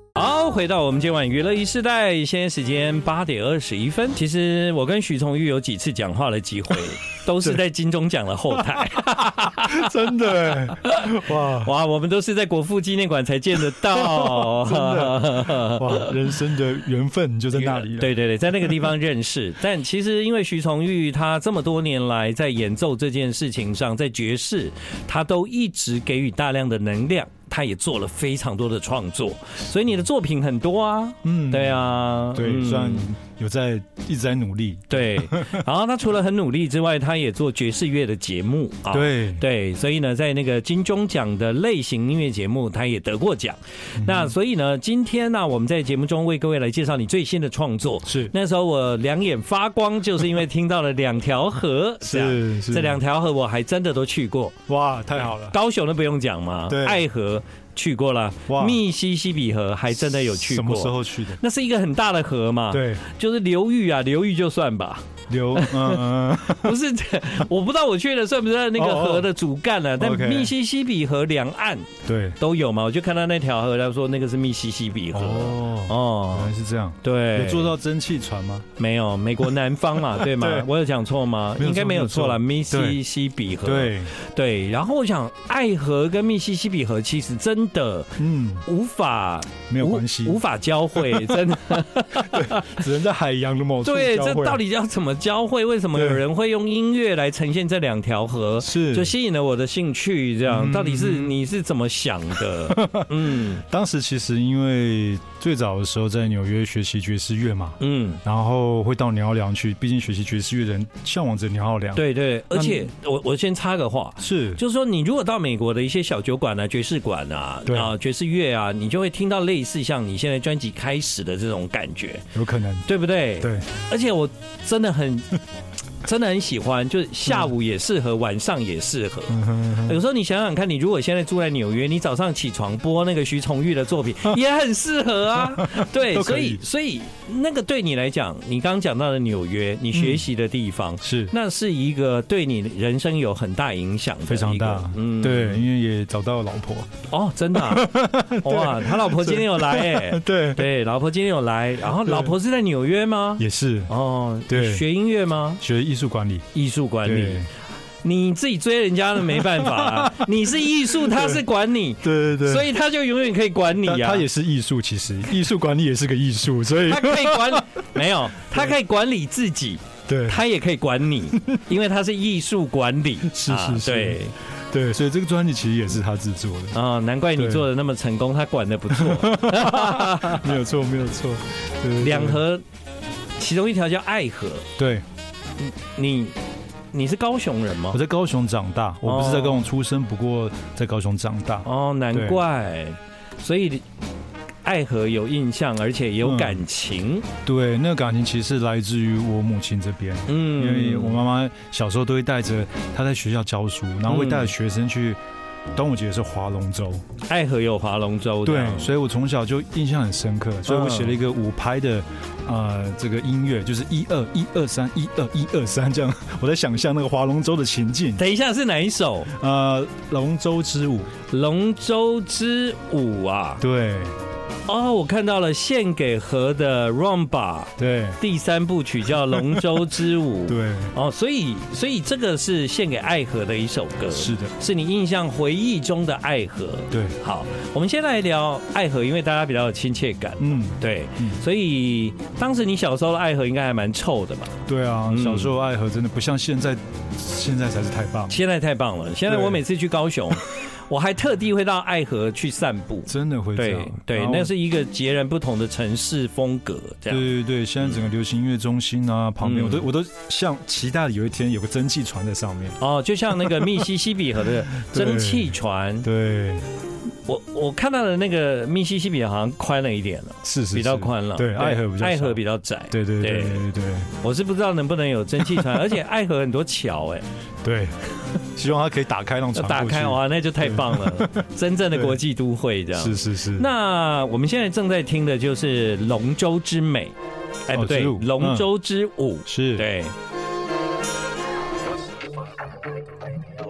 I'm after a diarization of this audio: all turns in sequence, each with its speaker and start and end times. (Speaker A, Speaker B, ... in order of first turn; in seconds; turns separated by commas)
Speaker A: 0.1-16.1, Speaker B: 8.9-11.7, Speaker B: 13.8-18.9, Speaker A: 17.5-33.1, Speaker B: 31.2-35.6, Speaker A: 34.9-54.5, Speaker B: 38.9-39.4, Speaker B: 44.0-44.3, Speaker B: 48.0-48.3, Speaker B: 52.0-53.0, Speaker B: 54.7-55.5, Speaker A: 55.5-76.5, Speaker B: 56.7-57.0, Speaker B: 58.5-58.8, Speaker B: 60.0-61.4, Speaker B: 62.7-63.0, Speaker B: 65.3-66.8, Speaker B: 68.8-69.3, Speaker B: 70.0-70.5, Speaker B: 72.0-72.4, Speaker B: 75.1-78.7, Speaker A: 77.0-77.7, Speaker A: 78.8-92.8, Speaker B: 80.1-80.7, Speaker B: 81.5-83.0, Speaker B: 83.6-84.1, Speaker B: 88.2-88.6, Speaker B: 89.7-90.4, Speaker B: 90.9-91.5, Speaker B: 92.1-94.6, Speaker A: 93.8-103.6, Speaker B: 95.9-96.2, Speaker B: 98.6-99.1, Speaker B: 100.5-101.3, Speaker B: 102.6-112.9, Speaker A: 107.8-108.2, Speaker A: 111.9-122.3, Speaker B: 114.2-114.6, Speaker B: 117.6-117.9, Speaker B: 122.3-122.9, Speaker A: 122.8-125.4, Speaker B: 123.4-123.7, Speaker A: 126.0-145.6, Speaker B: 129.3-130.0, Speaker B: 135.4-136.6, Speaker B: 139.9-140.3, Speaker B: 141.0-141.3, Speaker B: 144.2-146.9, Speaker A: 147.1-155.6, Speaker B: 147.5-150.7, Speaker B: 151.9-152.3, Speaker B: 153.4-153.9, Speaker B: 154.5-154.9, Speaker B: 155.6-156.5, Speaker A: 156.5-157.4, Speaker B: 157.0-157.5, Speaker A: 158.0-164.2, Speaker B: 159.3-161.4, Speaker B: 162.0-162.7, Speaker B: 163.8-167.6, Speaker A: 166.8-174.3, Speaker B: 170.1-170.4, Speaker B: 173.2-176.8, Speaker A: 176.7-180.6, Speaker B: 177.3-177.6, Speaker B: 178.9-182.4, Speaker A: 182.0-182.6, Speaker A: 183.4-184.7, Speaker B: 184.8-185.1, Speaker A: 185.6-186.4, Speaker A: 186.9-188.0, Speaker B: 187.9-192.4, Speaker A: 189.0-189.6, Speaker A: 191.6-193.8, Speaker A: 194.6-197.2, Speaker B: 196.2-196.6, Speaker B: 197.4-205.2, Speaker A: 200.3-201.2, Speaker A: 204.1-204.5, Speaker B: 205.7-207.0, Speaker A: 207.2-208.9, Speaker B: 208.4-218.2, Speaker A: 210.7-211.2, Speaker A: 218.2-219.3, Speaker B: 219.3-221.1, Speaker A: 221.3-223.6, Speaker B: 223.6-224.2, Speaker A: 224.7-244.6, Speaker B: 227.8-228.2, Speaker B: 229.3-229.9, Speaker B: 230.5-230.9, Speaker B: 234.1-234.5, Speaker B: 236.9-237.2, Speaker B: 240.4-241.4, Speaker B: 244.7-248.4, Speaker A: 245.1-245.5, Speaker A: 248.3-257.2, Speaker B: 249.3-249.6, Speaker B: 253.1-254.5, Speaker B: 257.1-262.8, Speaker A: 259.4-259.9, Speaker A: 262.8-266.1, Speaker B: 263.3-263.9, Speaker B: 264.7-266.6, Speaker A: 267.2-273.6, Speaker B: 270.4-274.1, Speaker A: 274.2-277.2, Speaker B: 277.6-282.2, Speaker A: 279.5-287.1, Speaker B: 282.9-283.7, Speaker A: 287.7-290.1, Speaker B: 287.7-288.7, Speaker B: 289.4-289.9